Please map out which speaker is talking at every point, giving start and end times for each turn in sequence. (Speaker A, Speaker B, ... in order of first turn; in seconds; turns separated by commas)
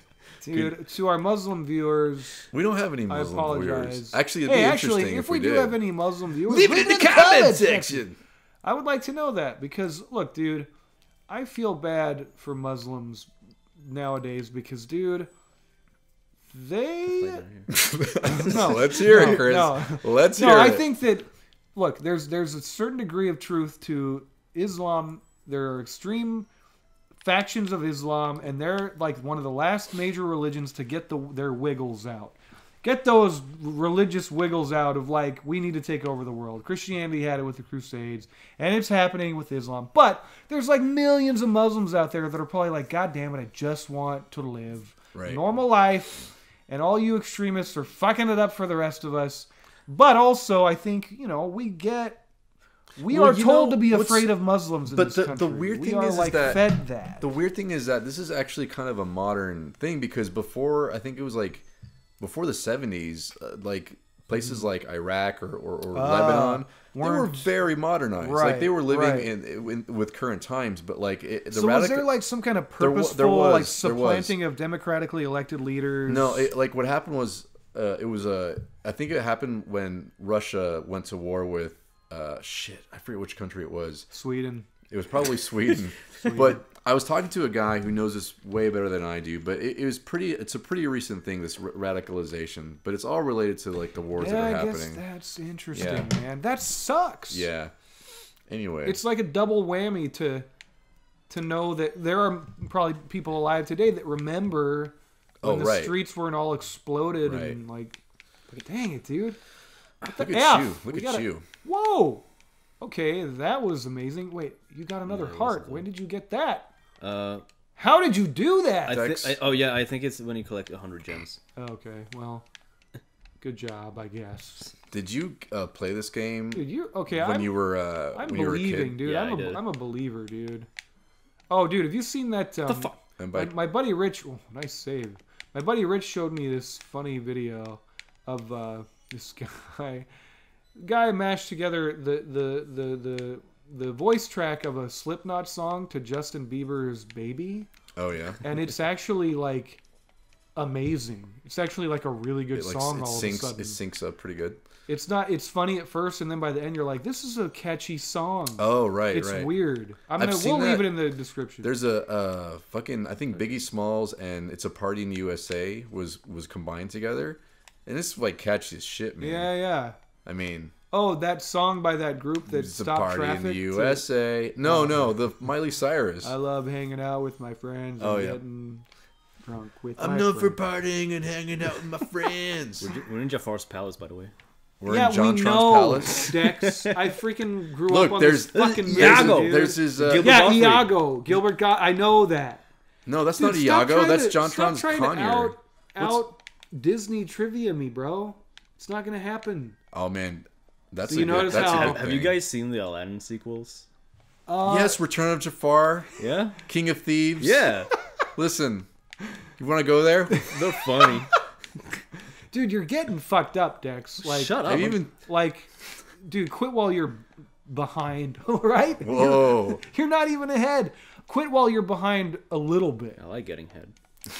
Speaker A: 0.4-2.5, Speaker B: 2.5-5.8, Speaker A: 3.1-8.1, Speaker B: 6.5-8.2, Speaker A: 8.6-10.7, Speaker A: 11.3-15.3, Speaker A: 16.5-17.4, Speaker C: 17.1-17.7, Speaker B: 17.7-20.9, Speaker A: 18.2-26.5, Speaker A: 27.2-52.2, Speaker B: 45.1-45.4, Speaker A: 53.0-57.2, Speaker B: 53.0-54.3, Speaker B: 54.9-61.6, Speaker B: 62.2-72.1, Speaker A: 65.9-67.5, Speaker A: 68.2-69.3, Speaker A: 71.5-76.5, Speaker B: 72.8-74.3, Speaker B: 76.1-84.1, Speaker A: 84.1-84.7, Speaker B: 84.9-95.0, Speaker A: 86.2-86.6, Speaker A: 94.2-97.5, Speaker B: 95.7-96.1, Speaker B: 97.3-97.7, Speaker B: 98.5-99.0, Speaker A: 98.8-100.5, Speaker A: 101.3-108.0, Speaker B: 105.4-105.9, Speaker B: 107.2-107.6, Speaker A: 108.5-109.4, Speaker A: 110.0-112.2, Speaker B: 110.1-111.4, Speaker A: 112.8-116.7, Speaker C: 115.0-115.9, Speaker C: 117.0-117.4, Speaker A: 117.8-119.0, Speaker C: 118.9-121.4, Speaker B: 118.9-119.4, Speaker A: 121.5-122.5, Speaker A: 123.4-124.7, Speaker B: 124.9-129.0, Speaker A: 126.5-130.7, Speaker C: 129.0-129.6, Speaker A: 131.5-140.1, Speaker C: 132.7-132.9, Speaker B: 133.2-133.5, Speaker A: 140.8-147.7, Speaker B: 147.9-148.4, Speaker A: 148.4-149.8, Speaker A: 150.6-153.8, Speaker B: 152.5-154.6, Speaker A: 154.9-161.7, Speaker B: 158.6-159.5, Speaker B: 160.2-169.5, Speaker A: 169.2-170.0, Speaker B: 170.2-170.7, Speaker A: 170.9-174.1, Speaker B: 172.5-176.3, Speaker A: 174.6-175.1, Speaker A: 176.2-178.8, Speaker B: 178.0-178.4, Speaker A: 179.4-180.6, Speaker B: 180.0-182.9, Speaker C: 182.8-184.3, Speaker B: 184.8-186.3, Speaker A: 184.8-192.6, Speaker C: 186.1-186.9, Speaker B: 187.9-190.5, Speaker C: 188.5-191.0, Speaker B: 193.1-196.2, Speaker A: 193.3-199.8, Speaker B: 199.9-202.4, Speaker A: 201.1-202.0, Speaker C: 201.2-203.8, Speaker A: 204.5-205.0, Speaker B: 204.6-206.1, Speaker C: 206.2-206.6, Speaker B: 206.6-207.7, Speaker C: 207.4-207.9, Speaker B: 208.3-208.9, Speaker B: 209.6-210.5, Speaker C: 210.5-211.3, Speaker A: 212.5-223.2, Speaker C: 214.2-215.0, Speaker B: 214.6-215.1, Speaker B: 219.0-219.8, Speaker C: 223.2-223.9